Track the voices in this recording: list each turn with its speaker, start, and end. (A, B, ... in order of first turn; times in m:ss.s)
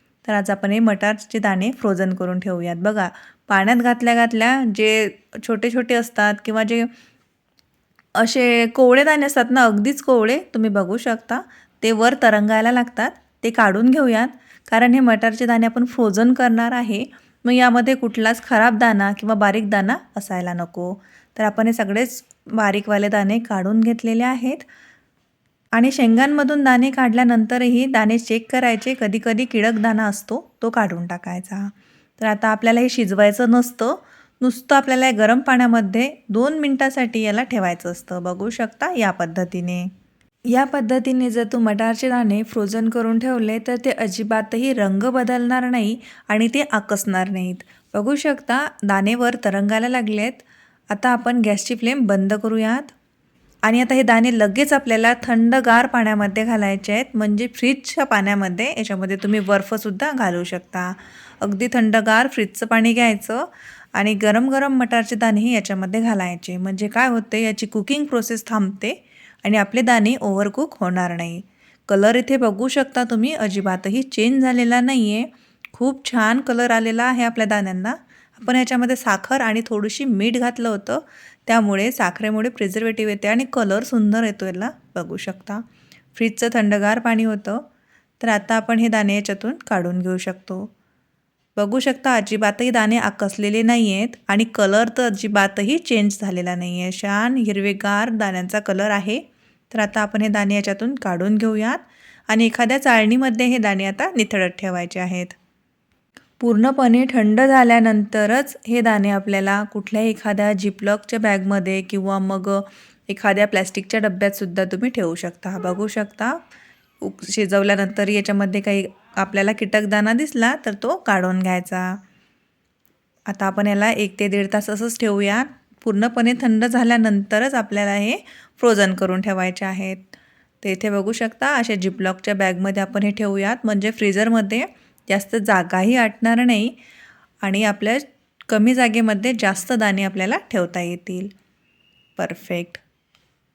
0:00.2-0:06.9 A
0:08.2-0:24.6 A
0:25.8-0:39.9 A
0:40.5-0:52.9 A
0:53.6-1:25.6 A
1:26.1-1:27.6 A
1:28.2-1:30.7 A
1:31.6-1:45.4 A
1:46.4-1:56.4 A
1:57.0-2:02.0 A
2:03.3-2:16.7 A
2:17.4-2:21.3 A
2:22.2-2:22.8 A